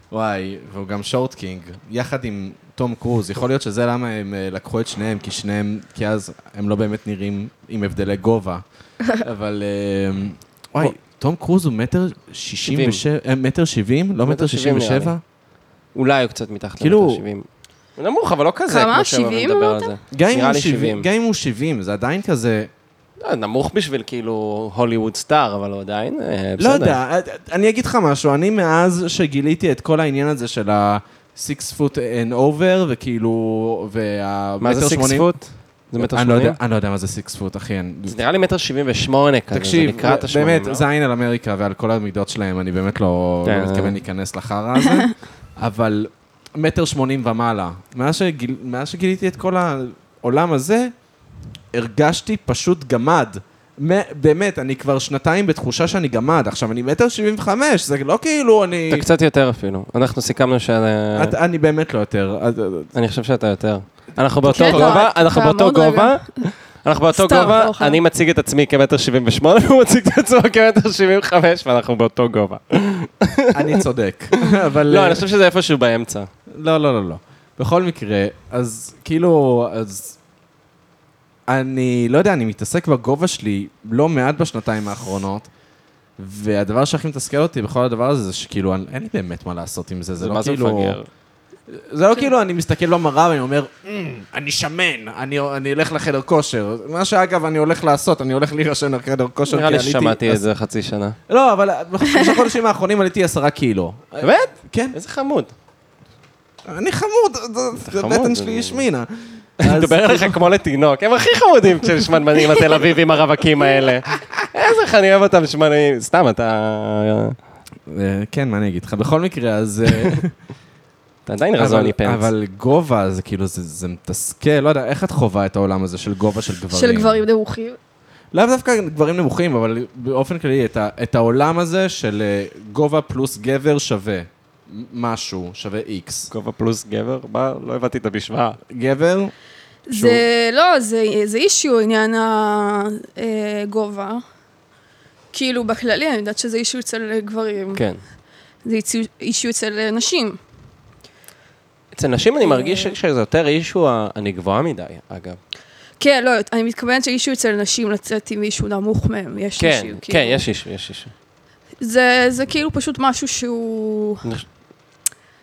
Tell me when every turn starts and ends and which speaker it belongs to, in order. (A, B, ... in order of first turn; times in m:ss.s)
0:00.1-0:15.2 A
0:12.7-0:13.0 B
0:14.2-0:15.1 B
0:15.9-0:17.4 B
0:16.8-0:17.2 A
0:18.0-0:21.1 B
0:18.7-0:20.0 C
0:20.1-0:22.7 A
0:23.2-0:27.0 B
0:26.6-0:35.3 A
0:34.6-0:36.6 B
0:36.0-0:38.2 A
0:38.1-0:40.8 B
0:39.5-0:50.9 A
0:43.4-0:44.0 B
0:51.7-0:59.1 A
0:58.9-1:01.3 B
1:01.2-1:02.9 A
1:02.9-1:13.8 B
1:04.4-1:05.0 A
1:04.4-1:06.5 C
1:07.1-1:08.0 C
1:13.5-1:15.2 A
1:14.4-1:16.3 B
1:16.5-1:20.2 A
1:21.5-1:25.5 A
1:26.2-1:31.0 A
1:30.2-1:31.1 B
1:31.7-1:40.4 A
1:39.5-1:41.2 B
1:41.3-1:45.0 A
1:44.2-1:45.5 B
1:46.7-1:50.4 A
1:47.8-1:48.8 B
1:49.6-1:57.4 B
1:57.9-2:00.3 A
2:01.2-2:02.3 B
2:01.6-2:07.2 A
2:06.7-2:07.8 C
2:08.3-2:16.3 A
2:16.3-2:18.6 B
2:18.7-2:19.3 A
2:19.9-2:24.2 C
2:19.9-2:20.2 A
2:25.3-2:27.8 C
2:27.7-2:28.0 B
2:28.6-2:30.4 C
2:31.9-2:35.4 B
2:32.4-2:32.9 C
2:36.0-2:40.4 C
2:39.6-2:41.1 B
2:41.8-2:44.2 C